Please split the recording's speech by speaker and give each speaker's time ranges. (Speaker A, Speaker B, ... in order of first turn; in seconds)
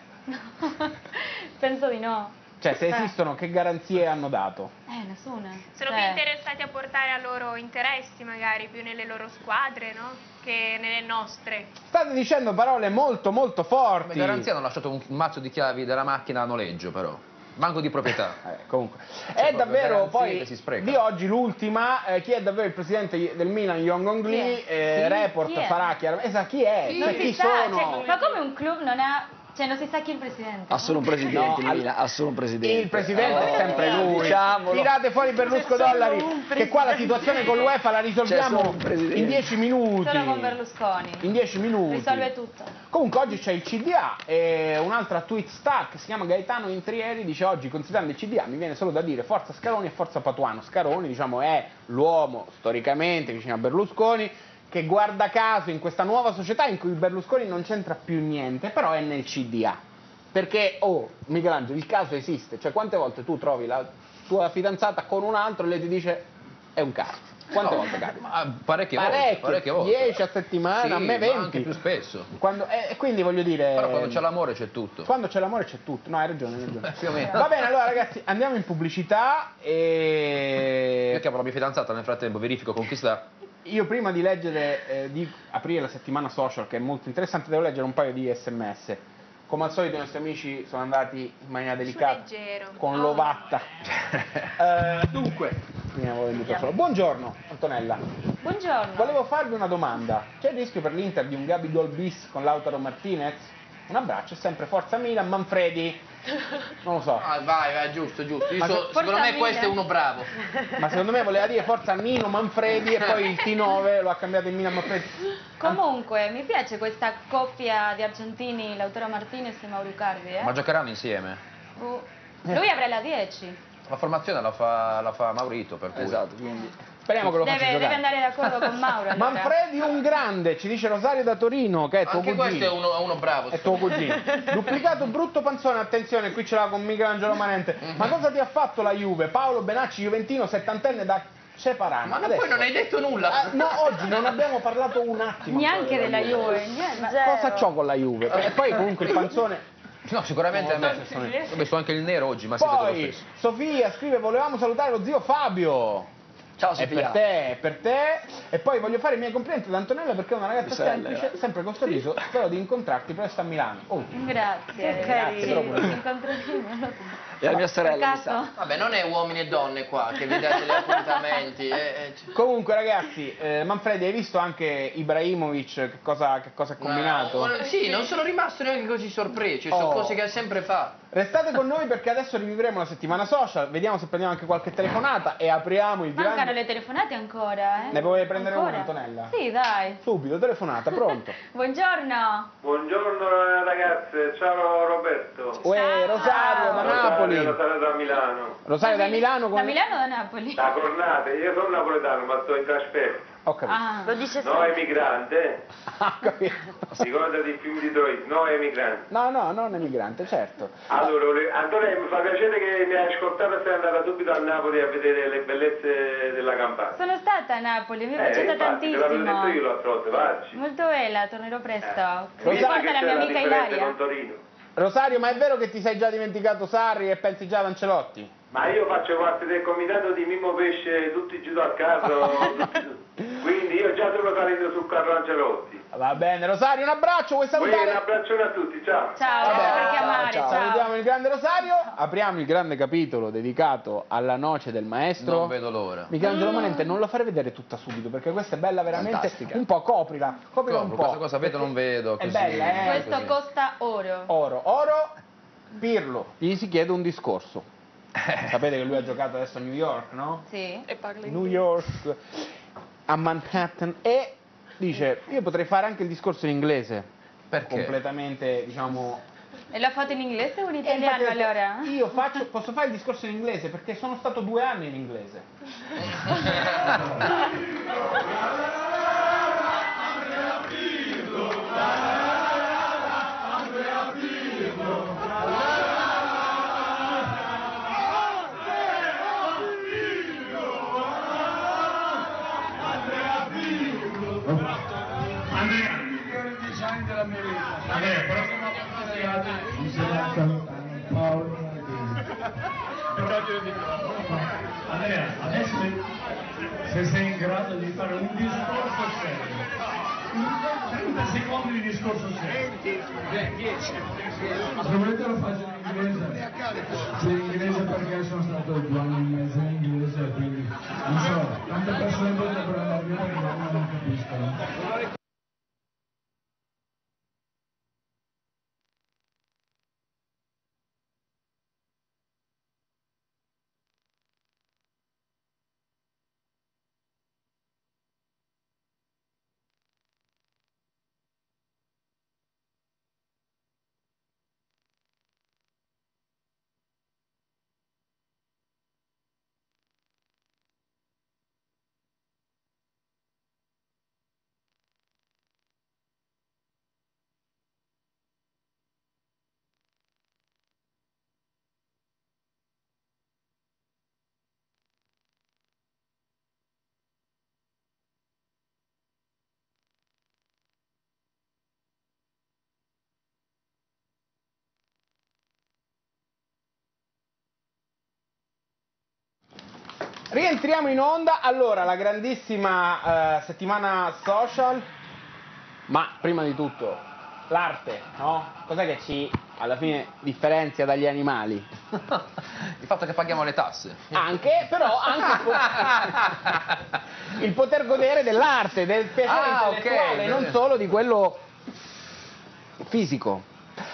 Speaker A: 0.3-3.1, 4.9-6.2, 24.2-25.9, 26.9-31.2, 40.0-41.3, 41.9-42.8, 98.4-99.2, 108.6-109.7, 115.6-120.5, 121.8-123.6, 127.4-129.5, 145.4-147.2, 164.1-168.5, 186.1-190.0, 191.5-192.5, 195.7-197.0, 198.8-200.7, 203.7-204.1, 216.9-219.6, 220.5-223.9, 239.2-240.9, 252.8-254.3, 260.5-260.9, 269.7-272.0
Speaker B: 2.6-4.7, 11.8-14.5, 18.4-28.1, 31.3-31.9, 32.6-40.5, 41.2-42.3, 42.9-59.8, 60.3-68.3, 68.9-71.7, 72.3-74.2, 75.0-81.2, 83.6-93.7, 94.6-98.0, 99.0-106.0, 106.8-107.2, 108.6-108.8, 110.8-115.2, 127.0-128.0, 129.1-132.7, 133.5-142.7, 143.2-149.7, 150.5-151.5, 152.6-156.1, 156.8-164.1, 164.9-166.0, 172.3-177.5, 179.7-180.2, 181.1-186.6, 187.9-189.3, 190.0-191.4, 195.6-197.6, 198.6-199.8, 203.4-203.8, 205.9-207.0, 209.1-211.0, 222.4-222.9, 224.8-228.3, 235.9-238.1, 239.4-245.5, 246.1-253.2, 254.3-255.1, 255.7-257.7, 258.4-260.4, 261.2-262.4, 263.1-267.1, 267.6-269.2, 270.8-275.4, 380.3-384.9, 385.9-391.7, 394.1-396.0, 397.3-401.4, 402.8-403.4
Speaker C: 5.7-11.7, 91.8-93.3, 195.6-196.8
Speaker D: 14.0-18.4, 19.4-21.0, 67.5-70.2, 70.8-72.3, 73.8-75.1, 76.8-77.6, 81.1-83.2, 120.4-121.4, 123.9-126.2, 150.1-153.2, 197.1-197.5, 245.2-246.1, 250.7-253.3, 267.5-267.9, 276.6-276.9, 392.8-394.1, 395.4-396.7, 399.2-400.5
Speaker E: 26.9-28.4, 260.9-261.7
Speaker F: 30.7-34.9, 38.2-39.5, 125.9-126.7, 156.6-157.2, 160.6-161.4, 167.4-168.4, 240.0-240.6, 248.9-249.6
Speaker G: 35.3-37.6, 146.9-147.7, 164.8-165.8, 204.0-204.8
Speaker H: 107.2-110.3, 132.1-134.0, 142.1-144.4, 168.6-172.3, 176.8-180.9
Speaker I: 192.6-195.6, 196.7-198.6, 200.6-203.3, 204.4-205.6, 207.0-209.1, 210.9-216.9, 218.2-220.6, 221.9-224.4, 228.5-235.8, 237.5-239.2
Speaker J: 294.3-294.9, 295.5-302.2, 303.1-306.0, 306.8-309.6, 310.3-313.8, 314.4-324.6